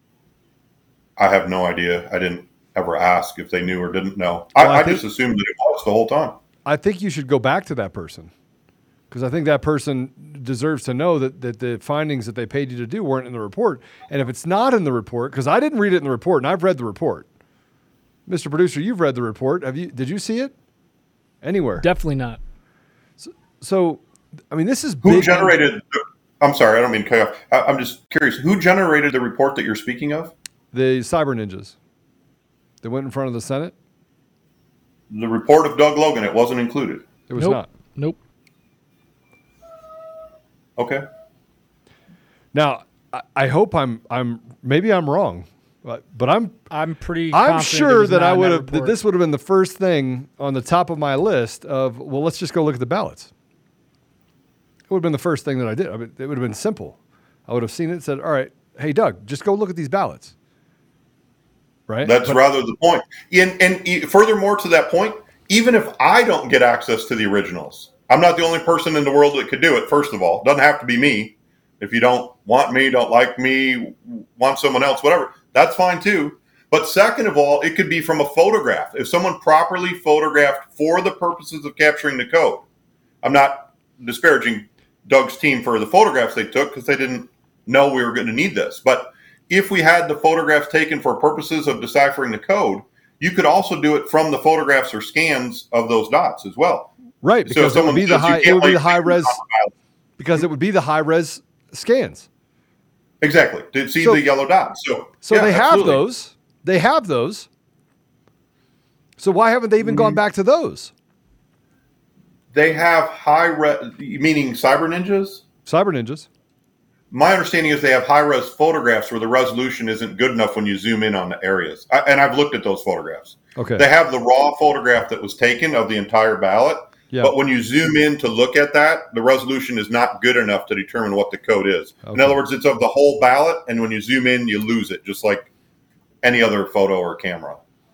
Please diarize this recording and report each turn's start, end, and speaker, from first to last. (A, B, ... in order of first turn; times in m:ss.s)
0:01.2-0:06.4 A
0:04.6-0:05.0 B
0:06.6-0:08.3 B
0:09.1-0:17.3 B
0:18.3-0:20.5 B
0:21.4-0:21.8 B
0:21.8-0:22.4 C
0:23.2-0:25.6 B
0:25.0-0:30.3 A
0:30.7-0:31.8 B
0:32.8-0:33.7 B
0:35.1-0:37.0 A
0:37.3-0:37.7 B
0:37.4-0:38.2 C
0:40.8-0:41.0 A
0:42.5-0:46.6 B
0:46.7-0:49.0 C
0:47.3-0:53.3 B
0:54.9-1:00.3 B
1:01.9-1:02.4 B
1:02.0-1:22.6 A
1:23.2-1:36.9 A
1:37.2-1:39.4 B
1:37.5-1:39.7 A
1:40.2-1:42.3 B
1:43.2-1:46.0 A
1:45.2-1:47.5 B
1:49.2-1:50.9 B
1:49.8-1:50.2 A
1:52.5-1:55.4 A
1:55.6-1:56.3 B
1:57.1-2:15.5 A
2:03.6-2:03.9 B
2:12.0-2:12.4 B
2:16.2-2:17.6 A